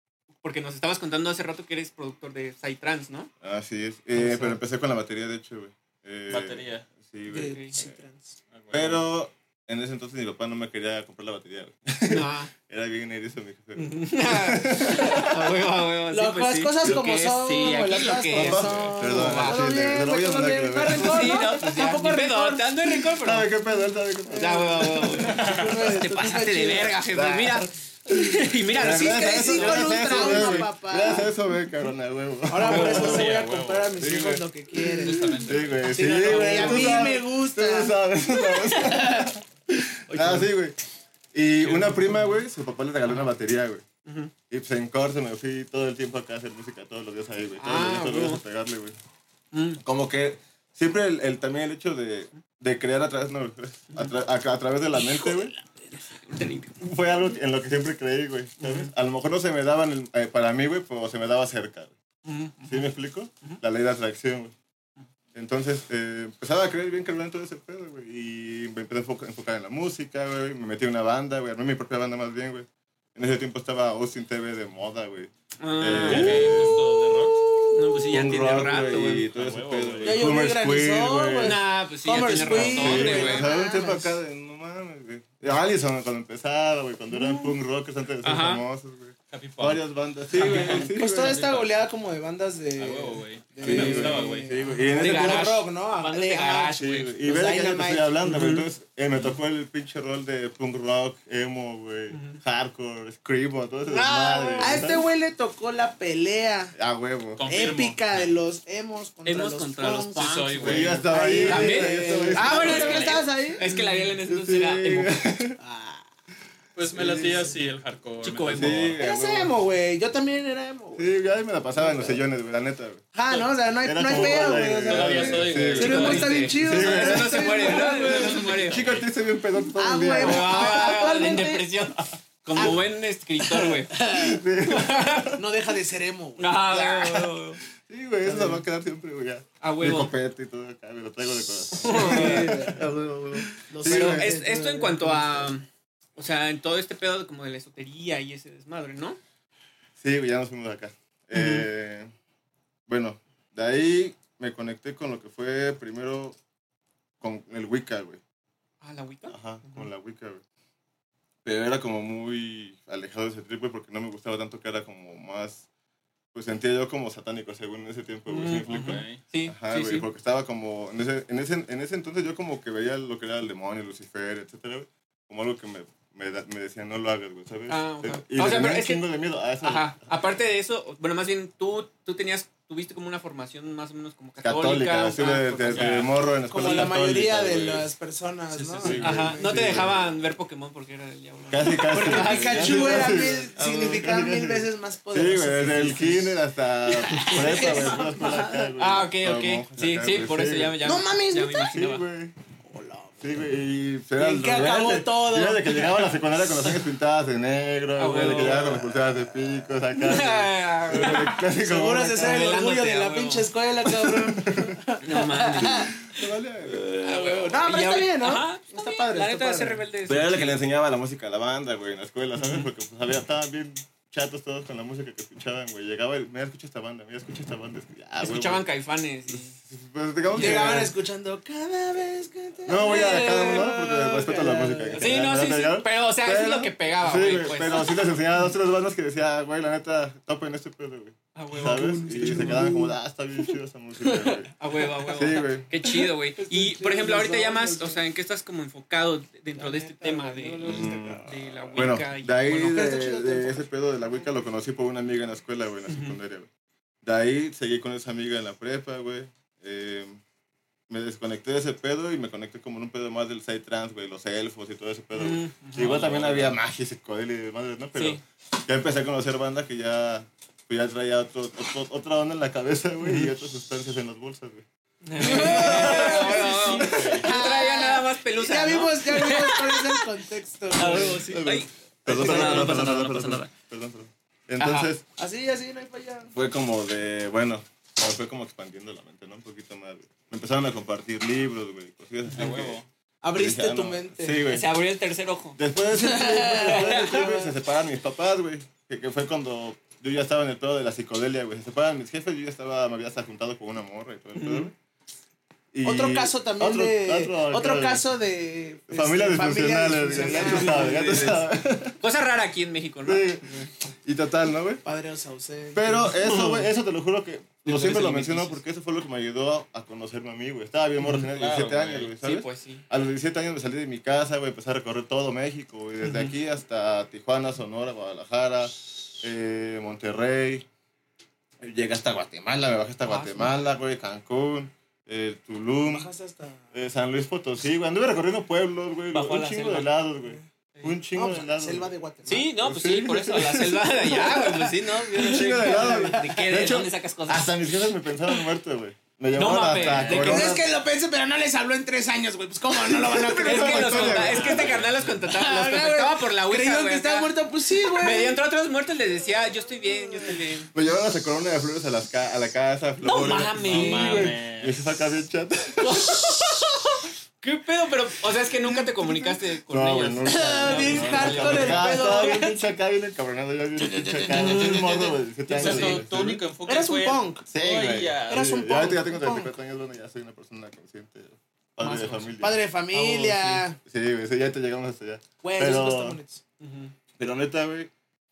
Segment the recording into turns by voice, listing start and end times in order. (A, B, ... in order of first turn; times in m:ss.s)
0:00.4-0:03.3 A
0:03.4-0:07.9 B
0:04.1-0:04.6 A
0:06.3-0:06.9 C
0:07.3-0:08.4 D
0:07.4-0:07.7 A
0:08.5-0:09.0 C
0:08.7-0:15.5 B
0:12.1-0:12.5 A
0:13.8-0:19.6 A
0:15.0-0:15.2 D
0:16.1-0:23.1 D
0:18.3-0:21.6 B
0:20.9-0:23.5 A
0:23.2-0:25.2 B
0:24.3-0:27.0 D
0:24.4-0:30.7 A
0:25.2-0:25.9 C
0:27.1-0:28.1 B
0:28.7-0:33.3 B
0:28.9-0:31.3 D
0:32.5-0:37.9 D
0:32.6-0:37.1 C
0:32.7-0:33.0 A
0:35.3-0:40.8 B
0:38.7-0:39.2 A
0:40.1-0:40.5 A
0:41.3-0:43.8 B
0:41.6-0:42.4 A
0:44.0-0:44.3 A
0:44.5-0:49.0 B
0:47.6-0:48.4 A
0:49.5-0:49.8 A
0:49.8-0:55.5 B
0:53.9-0:54.2 A
0:55.0-0:56.8 A
0:56.8-1:01.9 B
0:58.6-0:58.9 A
1:02.2-1:03.6 A
1:02.6-1:04.5 B
1:05.3-1:21.6 B
1:15.6-1:16.7 A
1:15.9-1:17.4 C
1:17.7-1:19.3 A
1:19.3-1:20.3 C
1:20.0-1:24.1 D
1:21.4-1:23.5 A
1:22.4-1:31.4 B
1:27.1-1:27.5 A
1:28.2-1:28.6 A
1:29.3-1:31.8 C
1:30.4-1:38.4 D
1:32.8-1:34.7 C
1:33.6-1:35.6 B
1:34.9-1:37.1 A
1:36.8-1:45.0 B
1:38.2-1:38.6 A
1:42.1-1:42.4 A
1:43.9-1:45.0 A
1:44.6-1:46.7 D
1:46.8-1:47.4 B
1:47.4-1:48.3 C
1:47.5-1:53.6 D
1:49.2-1:55.2 A
1:50.1-1:51.1 C
1:50.6-1:55.6 B
1:55.6-1:56.1 D
1:56.8-1:59.0 C
1:56.9-1:57.5 B
1:58.2-1:58.9 A
1:58.5-1:59.5 B
1:59.0-2:01.1 D
2:00.9-2:03.1 B
2:01.7-2:02.2 D
2:03.1-2:08.5 D
2:03.8-2:11.0 B
2:04.1-2:06.5 C
2:05.8-2:08.9 A
2:07.6-2:09.0 C
2:09.7-2:11.7 D
2:10.1-2:13.9 A
2:12.5-2:12.8 D
2:13.4-2:14.4 D
2:14.1-2:15.4 B
2:14.6-2:15.3 A
2:15.3-2:17.3 D
2:16.4-2:17.6 A
2:17.8-2:24.3 B
2:18.2-2:18.6 D
2:19.6-2:20.1 A
2:21.8-2:25.5 D
2:21.8-2:22.8 A
2:23.8-2:29.2 A
2:30.0-2:32.1 B
2:31.3-2:31.6 A
2:32.9-2:36.4 B
2:37.2-2:38.2 B
2:38.8-2:39.9 A
2:39.3-2:40.4 B
2:41.4-2:45.7 B
2:46.3-3:00.1 B
2:48.3-2:50.1 A
2:48.7-2:49.2 C
2:57.7-2:59.1 A
2:59.6-3:06.1 A
3:04.4-3:07.9 B
3:05.7-3:06.1 C
3:06.4-3:09.9 D
3:08.5-3:09.2 C
3:08.8-3:10.1 B
3:09.0-3:13.2 A
3:11.5-3:20.8 B
3:11.9-3:16.3 D
3:17.0-3:18.1 A
3:17.2-3:18.7 D
3:18.8-3:22.0 A
3:20.8-3:21.7 D
3:21.6-3:22.3 B
3:22.6-3:23.5 D
3:23.2-3:32.6 B
3:24.2-3:26.2 D
3:28.0-3:28.7 A
3:28.1-3:29.7 D
3:30.0-3:31.4 A
3:30.9-3:36.2 D
3:32.2-3:33.5 A
3:34.0-3:34.8 B
3:35.0-3:35.9 A
3:35.6-3:37.5 B
3:36.8-3:39.8 D
3:37.0-3:40.6 A
3:40.0-3:48.7 B
3:42.4-3:42.7 A
3:48.2-3:49.6 A
3:49.3-3:50.9 B
3:50.3-3:50.8 A
3:50.3-3:55.3 D
3:52.6-4:04.5 B
3:52.8-3:53.6 A
3:55.0-3:57.9 A
3:57.6-3:58.0 D
4:01.3-4:02.7 A
4:01.5-4:05.2 D
4:04.6-4:12.6 A
4:05.1-4:05.7 B
4:05.8-4:08.0 D
4:09.5-4:13.7 D
4:10.6-4:16.5 B
4:15.9-4:16.2 A
4:17.0-4:20.2 B
4:20.9-4:34.6 B
4:25.2-4:26.4 A
4:25.9-4:26.5 C
4:27.9-4:28.2 A
4:33.0-4:33.3 A
4:35.0-4:40.0 A
4:35.2-4:37.2 B
4:35.2-4:41.2 D
4:35.8-4:37.3 C
4:40.7-4:43.5 A
4:41.0-4:45.0 B
4:42.1-4:42.8 D
4:44.6-4:44.9 A
4:45.2-4:46.3 D
4:46.3-4:52.8 B
4:52.3-4:52.9 C
4:53.2-4:54.4 D
4:53.3-4:54.7 B
4:54.4-4:55.6 A
4:55.6-5:04.7 B
4:55.9-4:57.5 D
4:56.5-4:57.3 A
5:04.3-5:04.7 A
5:05.7-5:08.1 B
5:05.8-5:11.4 D
5:08.9-5:12.0 B
5:10.2-5:11.1 A
5:12.0-5:13.7 A
5:13.0-5:14.8 B
5:14.8-5:16.5 D
5:15.7-5:30.6 B
5:16.2-5:16.6 A
5:17.6-5:18.6 A
5:21.0-5:21.3 A
5:21.3-5:22.1 C
5:22.2-5:22.8 A
5:26.0-5:26.4 A
5:31.6-5:36.1 B
5:33.0-5:33.6 A
5:35.8-5:36.7 D
5:36.7-5:41.9 B
5:39.1-5:39.9 A
5:41.1-5:42.5 D
5:42.3-5:47.5 A
5:42.6-5:50.7 B
5:44.3-5:46.6 D
5:49.3-5:50.6 A
5:49.7-5:50.4 C
5:50.1-5:58.4 D
5:52.8-5:54.9 B
5:53.4-5:57.3 A
5:54.3-5:55.1 C
5:58.0-6:00.7 A
5:59.7-6:00.4 D
6:00.7-6:06.6 B
6:03.0-6:04.3 A
6:03.6-6:04.8 C
6:05.8-6:12.2 A
6:08.7-6:09.4 D
6:09.7-6:16.4 B
6:10.2-6:12.7 D
6:10.9-6:11.8 C
6:13.8-6:15.1 D
6:14.3-6:16.0 A
6:15.5-6:18.5 C
6:16.6-6:17.4 D
6:17.5-6:22.6 B
6:18.3-6:19.5 D
6:21.8-6:22.4 A
6:22.4-6:23.8 D
6:22.9-6:23.6 A
6:23.8-6:26.2 B
6:25.4-6:26.4 D
6:26.6-6:26.9 A
6:27.2-6:27.9 B